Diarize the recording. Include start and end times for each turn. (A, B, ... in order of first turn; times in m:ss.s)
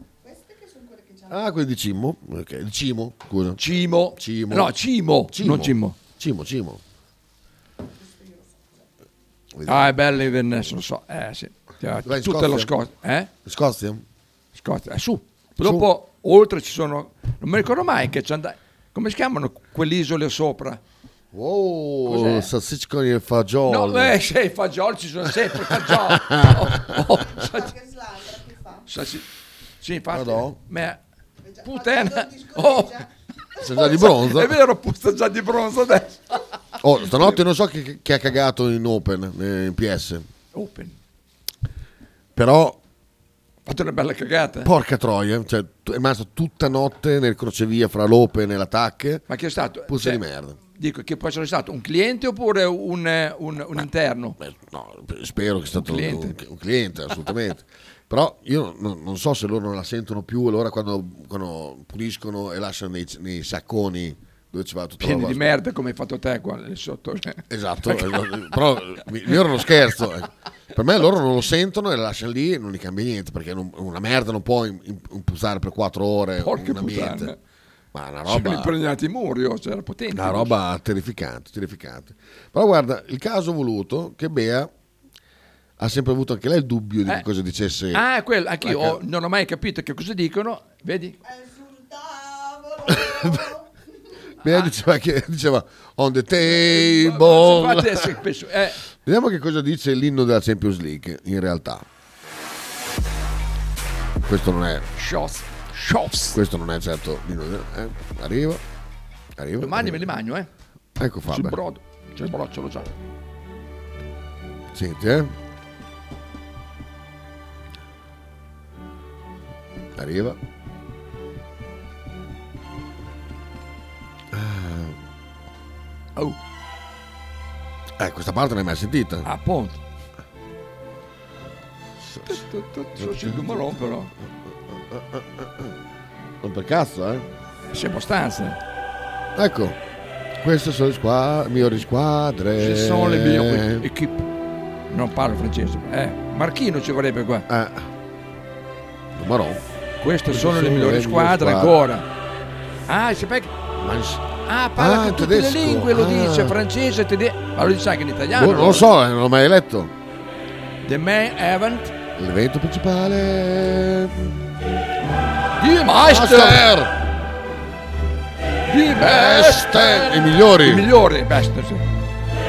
0:01.3-0:04.8 A
0:03.6-0:06.0 B
0:05.3-0:06.8 A
0:09.5-0:10.0 A
0:09.6-0:13.3 B
0:12.0-0:12.7 A
0:13.4-0:14.0 A
0:14.5-0:20.8 B
0:15.6-0:15.9 A
0:21.3-0:24.2 A
0:22.1-0:22.5 B
0:23.7-0:27.8 B
0:25.6-0:27.0 A
0:28.9-0:29.3 B
0:29.8-0:31.0 B
0:30.1-0:30.6 A
0:31.6-0:33.1 B
0:33.6-0:36.4 B
0:33.6-0:34.6 A
0:36.8-0:40.3 A
0:37.1-0:37.4 B
0:40.5-0:41.0 B
0:42.4-0:42.8 A
0:43.7-0:44.7 B
0:44.6-0:49.2 A
0:49.3-0:50.2 B
0:49.9-0:50.6 A
0:50.8-0:54.4 B
0:54.4-1:05.4 A
0:55.8-0:56.4 B
1:05.0-1:08.6 B
1:07.5-1:17.3 A
1:16.4-1:17.4 B
1:17.9-1:18.8 A
1:18.3-1:20.6 B
1:20.1-1:24.7 A
1:25.8-1:28.0 A
1:27.9-1:31.2 B
1:28.6-1:29.0 A
1:32.9-1:33.6 A
1:34.4-1:38.1 A
1:36.4-1:38.8 B
1:39.0-1:41.9 A
1:44.2-1:44.9 A
1:45.0-1:46.4 B
1:46.3-1:48.6 A
1:49.4-1:50.1 A
1:49.6-1:50.5 B
1:51.0-1:51.6 A
1:51.3-1:52.9 B
1:54.7-1:55.3 A
2:00.0-2:00.4 A
2:04.3-2:05.0 A
2:08.0-2:09.3 A
2:09.2-2:09.8 B
2:12.0-2:12.4 A
2:12.3-2:14.1 B
2:13.0-2:13.8 A
2:14.7-2:15.8 A
2:16.4-2:17.3 A
2:17.7-2:18.6 B
2:19.4-2:19.8 A
2:20.4-2:23.8 A
2:22.6-2:24.3 B
2:24.9-2:27.5 B
2:27.5-2:27.9 A
2:29.1-2:29.6 A
2:30.0-2:32.1 B
2:30.3-2:31.8 A
2:32.9-2:33.5 B
2:33.8-2:36.6 A
2:34.5-2:38.8 B
2:38.3-2:39.9 A
2:40.8-2:41.9 B
2:42.2-2:44.2 A
2:45.6-2:46.7 B
2:46.0-2:47.0 A
2:48.7-2:51.8 B
2:49.0-2:50.9 A